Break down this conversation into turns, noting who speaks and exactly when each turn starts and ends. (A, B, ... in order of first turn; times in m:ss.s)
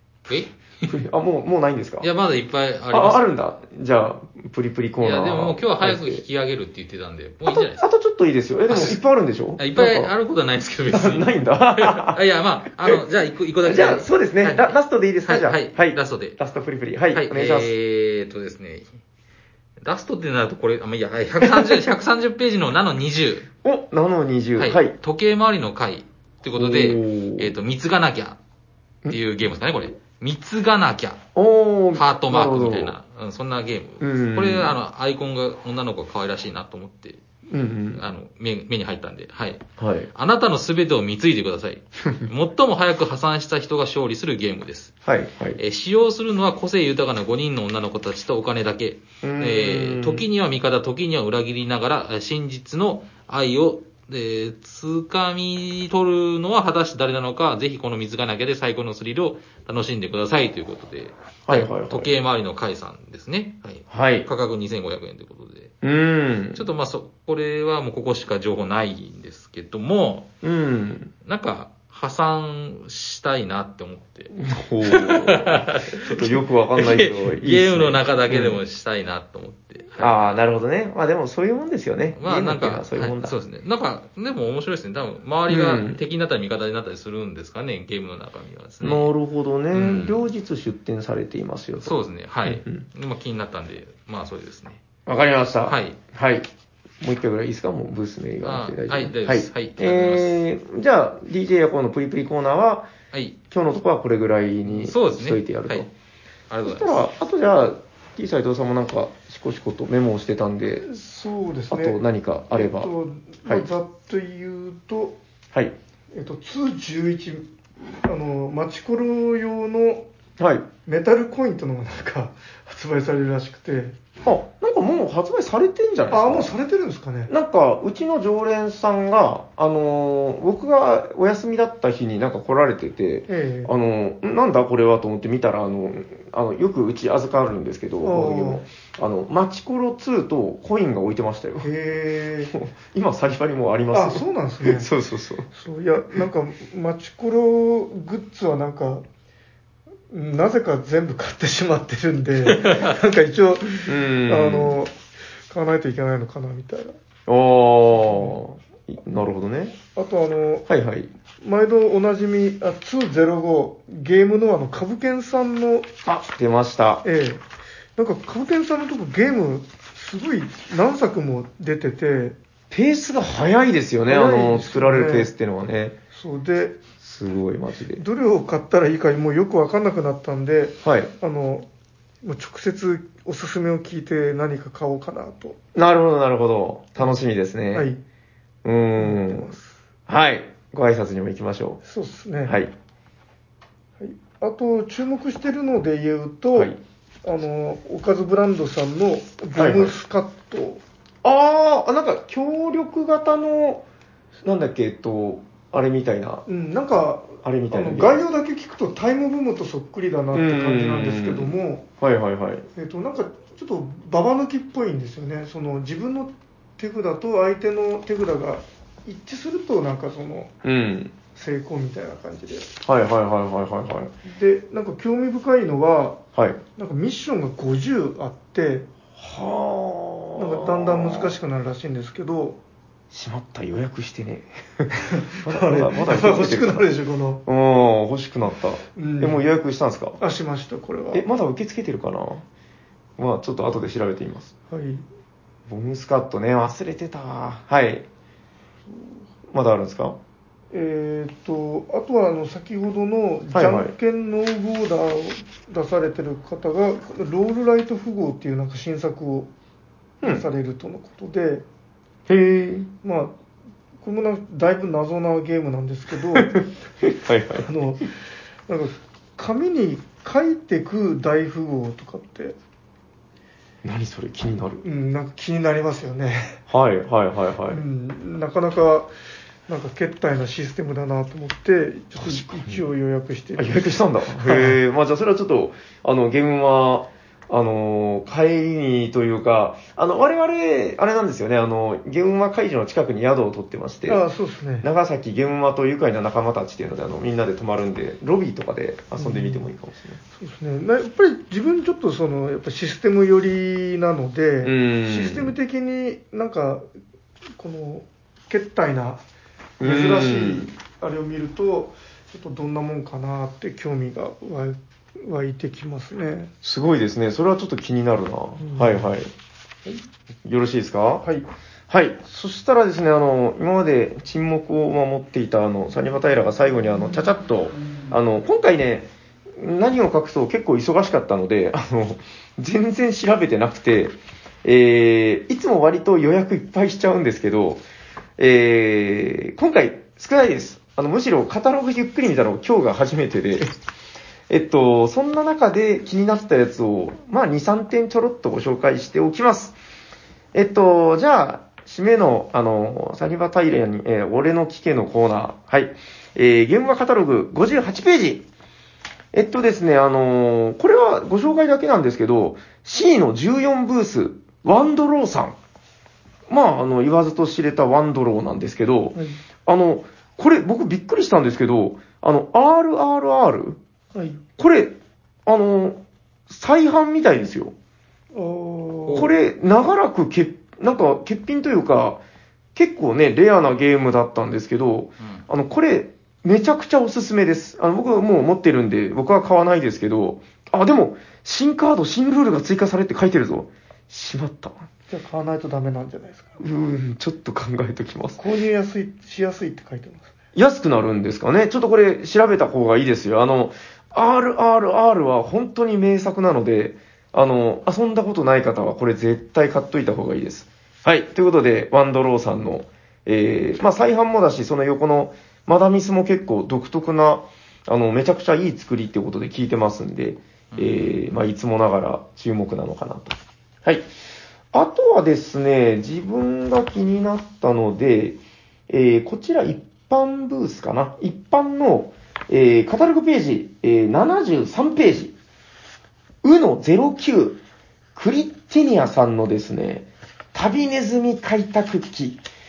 0:00.3-0:00.9 A
0:00.9-0:02.1 B
0:02.0-0:03.3 A
0:02.9-0:06.2 B
0:05.0-0:07.8 A
0:07.5-0:10.1 B
0:08.7-0:09.0 A
0:09.6-0:16.4 A
0:10.9-0:12.2 B
0:13.6-0:17.7 B
0:17.1-0:19.0 A
0:19.8-0:23.5 A
0:21.4-0:21.8 B
0:23.6-0:25.0 B
0:24.6-0:28.4 A
0:26.5-0:27.5 B
0:29.1-0:31.2 A
0:31.4-0:33.0 B
0:31.9-0:37.2 A
0:34.0-0:34.8 B
0:37.5-0:38.0 B
0:37.9-0:44.9 A
0:39.8-0:40.1 B
0:45.0-0:45.6 B
0:45.6-1:05.7 A
0:49.2-0:50.2 B
1:01.5-1:02.1 B
1:03.9-1:04.3 B
1:05.8-1:06.7 B
1:06.5-1:10.3 A
1:10.4-1:11.1 B
1:11.2-1:20.4 A
1:14.3-1:18.6 B
1:20.0-1:23.4 B
1:22.2-1:29.1 A
1:25.5-1:26.0 B
1:28.8-1:32.8 B
1:29.7-1:30.2 A
1:31.8-1:34.8 A
1:35.1-1:36.5 B
1:35.6-1:36.0 A
1:37.0-1:42.9 B
1:38.4-1:40.4 A
1:43.5-1:45.9 B
1:44.7-1:45.9 A
1:46.5-1:47.0 A
1:46.6-1:50.8 B
1:50.8-1:52.0 C
1:51.7-1:52.9 B
1:52.5-1:55.2 C
1:56.1-2:00.1 C
2:00.4-2:00.7 B
2:00.9-2:04.0 C
2:04.2-2:06.5 B
2:06.1-2:07.3 C
2:07.3-2:21.7 B
2:13.3-2:13.7 C
2:18.0-2:18.6 C
2:21.6-2:22.5 C
2:22.5-2:25.5 B
2:23.9-2:24.9 C
2:25.5-2:29.0 C
2:30.1-2:34.9 C
2:33.9-2:34.8 B
2:35.5-2:37.0 C
2:37.3-2:39.8 B
2:37.9-2:38.4 C
2:40.0-2:40.7 C
2:40.7-2:41.1 B
2:41.4-2:45.9 C
2:46.1-2:47.0 B
2:47.0-2:47.4 C
2:48.0-2:52.4 C
2:52.7-2:56.0 B
2:54.1-2:55.3 C
2:56.1-2:56.8 C
2:57.0-2:58.0 B
2:58.0-3:01.7 C
3:00.8-3:01.1 B
3:02.2-3:05.6 C
3:05.8-3:07.9 B
3:07.7-3:08.0 C
3:08.6-3:09.6 B
3:09.0-3:09.7 C
3:10.1-3:11.8 B
3:11.8-3:12.6 C
3:12.4-3:12.7 B
3:14.0-3:16.7 C
3:17.2-3:20.8 C
3:19.6-3:20.0 B
3:21.2-3:23.8 B
3:24.4-3:26.4 B
3:26.5-3:31.8 C
3:27.4-3:28.2 B
3:30.3-3:32.7 B
3:32.8-3:40.5 C
3:40.6-3:41.2 B
3:41.3-3:42.7 C
3:42.9-3:44.1 B
3:44.2-3:46.2 C
3:46.4-3:46.6 B
3:46.8-3:48.9 C
3:49.2-3:51.4 B
3:50.4-3:52.6 C
3:53.1-3:56.9 B
3:55.1-3:57.4 C
3:57.5-4:00.2 B
3:59.0-3:59.4 C
4:00.2-4:01.2 C
4:01.1-4:02.4 B
4:03.2-4:04.5 B
4:04.7-4:05.0 C
4:05.7-4:08.1 B
4:08.9-4:09.2 C
4:09.5-4:10.2 B
4:10.7-4:19.5 C
4:13.5-4:13.9 B
4:20.2-4:21.7 C
4:22.3-4:22.9 B
4:23.0-4:23.4 C
4:24.0-4:26.6 C
4:26.4-4:27.7 B
4:27.6-4:32.6 C
4:33.8-4:34.8 B
4:34.8-4:36.6 C
4:36.7-4:37.8 B
4:37.7-4:39.1 C
4:39.7-4:44.8 C
4:42.2-4:42.8 B
4:43.6-4:54.2 B
4:54.1-4:54.9 C
4:54.8-5:00.2 B
4:59.2-4:59.6 C
5:00.4-5:06.8 C
5:04.6-5:05.6 B
5:07.6-5:09.2 C
5:09.8-5:10.7 B
5:09.8-5:16.5 C
5:16.6-5:19.3 B
5:18.6-5:19.1 C
5:20.4-5:21.3 B
5:21.9-5:37.8 B
5:38.4-5:43.7 B
5:44.5-5:49.8 B
5:50.5-5:58.5 B
5:59.3-6:05.6 B
6:06.5-6:13.8 B
6:14.1-6:14.4 C
6:14.6-6:15.0 B
6:15.5-6:17.7 B
6:18.3-6:19.3 C
6:19.1-6:22.2 B
6:22.8-6:34.9 B
6:35.1-6:36.6 C
6:36.6-6:38.4 B
6:38.4-6:40.3 C
6:40.6-7:04.1 B
7:00.7-7:01.2 A
7:04.7-7:15.3 B
7:16.4-7:17.6 B
7:18.2-7:22.4 B